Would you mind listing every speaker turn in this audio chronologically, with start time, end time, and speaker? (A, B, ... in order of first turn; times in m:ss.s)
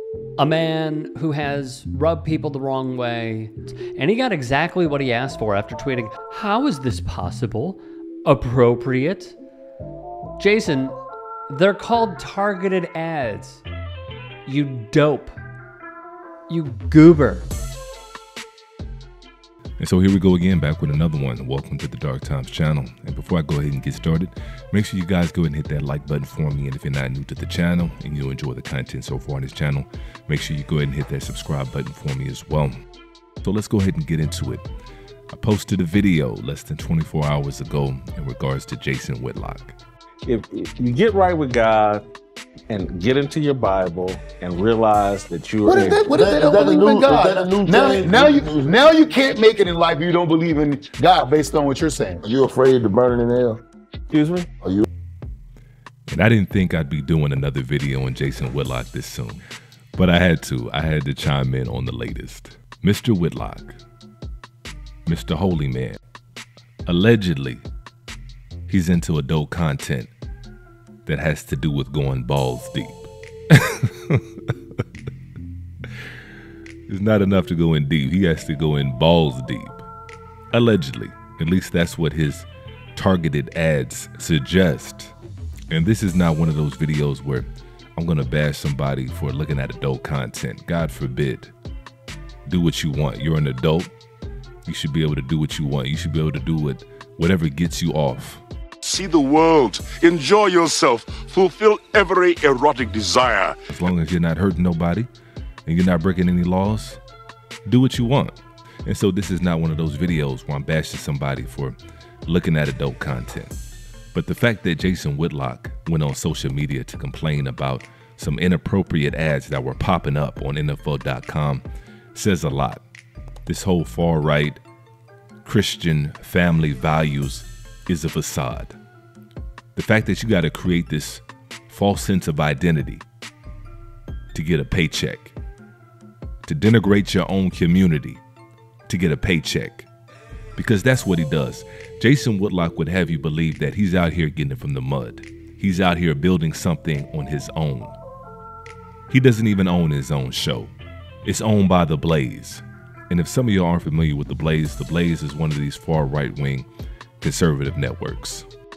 0:00.4-0:09.4 A
0:10.4-0:13.6 A
0:14.5-0:15.4 A
0:16.5-0:17.5 A
0:19.8-0:32.7 B
0:33.4-0:34.6 B
0:35.3-0:39.8 B
0:40.3-0:42.0 C
0:42.7-0:46.2 C
0:45.7-0:52.2 D
0:46.2-0:48.7 E
0:52.3-0:53.6 E
0:54.1-0:54.5 C
0:56.1-0:59.4 B
1:00.0-1:03.8 B
1:05.1-1:06.0 B
1:06.9-1:07.6 B
1:08.7-1:10.1 B
1:11.1-1:14.2 B
1:16.9-1:19.8 B
1:20.5-1:25.2 B
1:25.7-1:31.5 B
1:32.5-1:33.9 B
1:34.7-1:38.4 B
1:38.8-1:43.6 F
1:43.7-1:45.1 B
1:45.7-1:47.0 B
1:47.7-1:48.4 B
1:48.9-1:53.6 B
1:54.1-2:02.8 B
2:03.5-2:04.6 B
2:05.4-2:08.8 B
2:09.8-2:13.0 B
2:14.3-2:15.4 B
2:16.4-2:18.2 B
2:18.9-2:19.9 B
2:20.6-2:28.0 B
2:29.1-2:30.7 B
2:31.2-2:36.7 B
2:37.2-2:38.5 B